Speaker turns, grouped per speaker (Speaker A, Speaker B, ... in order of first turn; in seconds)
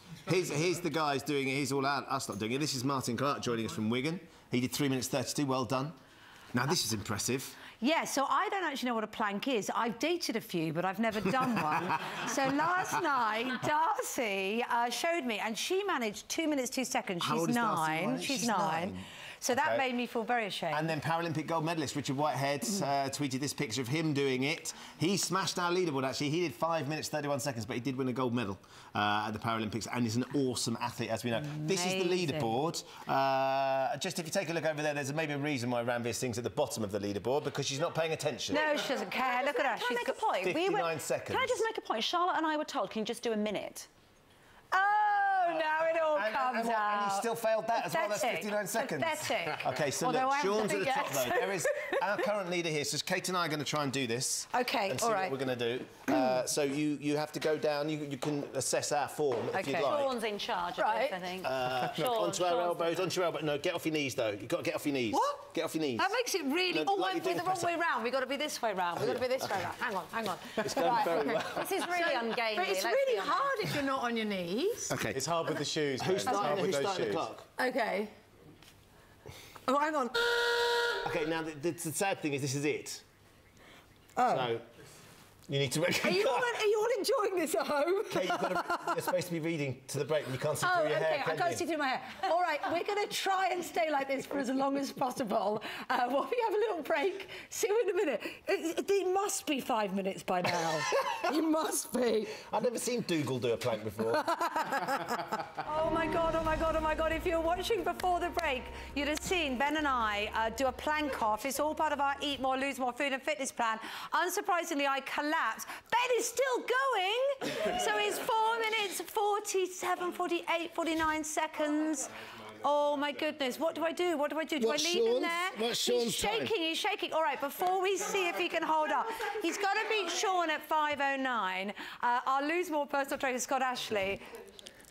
Speaker A: 0.2-5.9, 6.5-7.6, 17.2-19.8, 20.7-38.7, 40.4-41.6, 46.0-60.1, 61.4-66.1, 66.7-67.7, 69.0-69.7, 70.6-71.7, 74.9-75.2, 76.0-77.5, 81.0-83.0, 84.2-84.6, 85.5-86.6, 88.1-91.6, 102.4-104.3, 124.6-126.5
Speaker B: 7.8-20.9, 31.4-32.6, 38.5-40.2, 44.7-52.1, 54.5-55.4, 56.1-56.4, 59.5-60.0, 60.8-61.2, 65.1-65.4, 66.0-74.9, 76.3-76.6, 77.6-78.1, 79.7-80.3, 84.2-84.5, 86.0-89.0, 90.6-102.3, 104.3-105.0, 105.6-134.2
Speaker C: 38.5-43.9, 59.8-63.0, 71.4-73.5
Speaker D: 70.6-71.7, 75.1-77.3